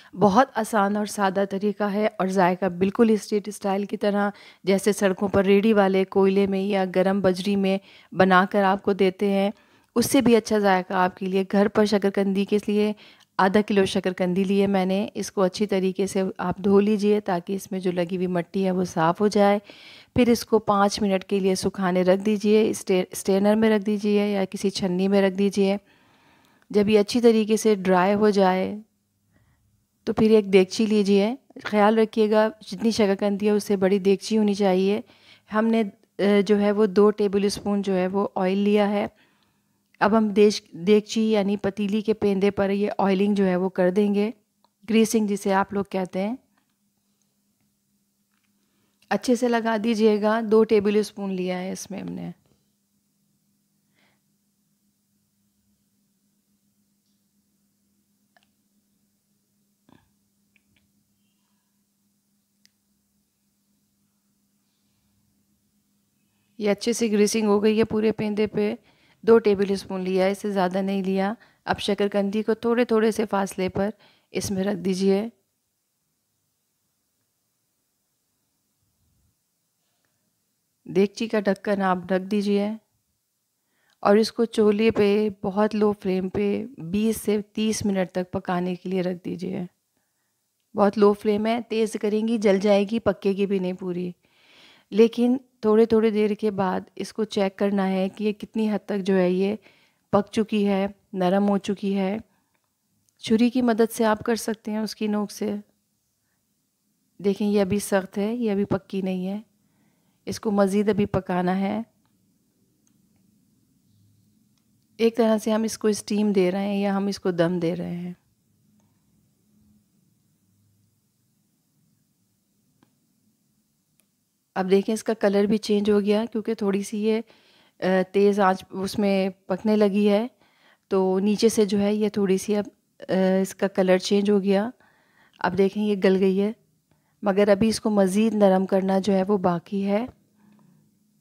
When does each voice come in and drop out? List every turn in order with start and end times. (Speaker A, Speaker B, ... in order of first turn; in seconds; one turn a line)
Speaker A: 0.1-19.6
Speaker A: 20.1-25.8
Speaker A: 26.7-28.8
Speaker A: 30.1-39.1
Speaker A: 40.0-44.3
Speaker A: 44.9-46.4
Speaker A: 49.1-52.4
Speaker A: 66.6-75.3
Speaker A: 80.9-82.8
Speaker A: 84.0-89.7
Speaker A: 90.8-94.2
Speaker A: 94.9-99.6
Speaker A: 100.1-102.2
Speaker A: 103.2-105.6
Speaker A: 107.2-109.4
Speaker A: 110.3-111.9
Speaker A: 115.0-118.2
Speaker A: 124.6-127.2
Speaker A: 127.8-130.3
Speaker A: 130.9-134.7
Speaker A: 135.4-136.6
Speaker A: 137.2-140.1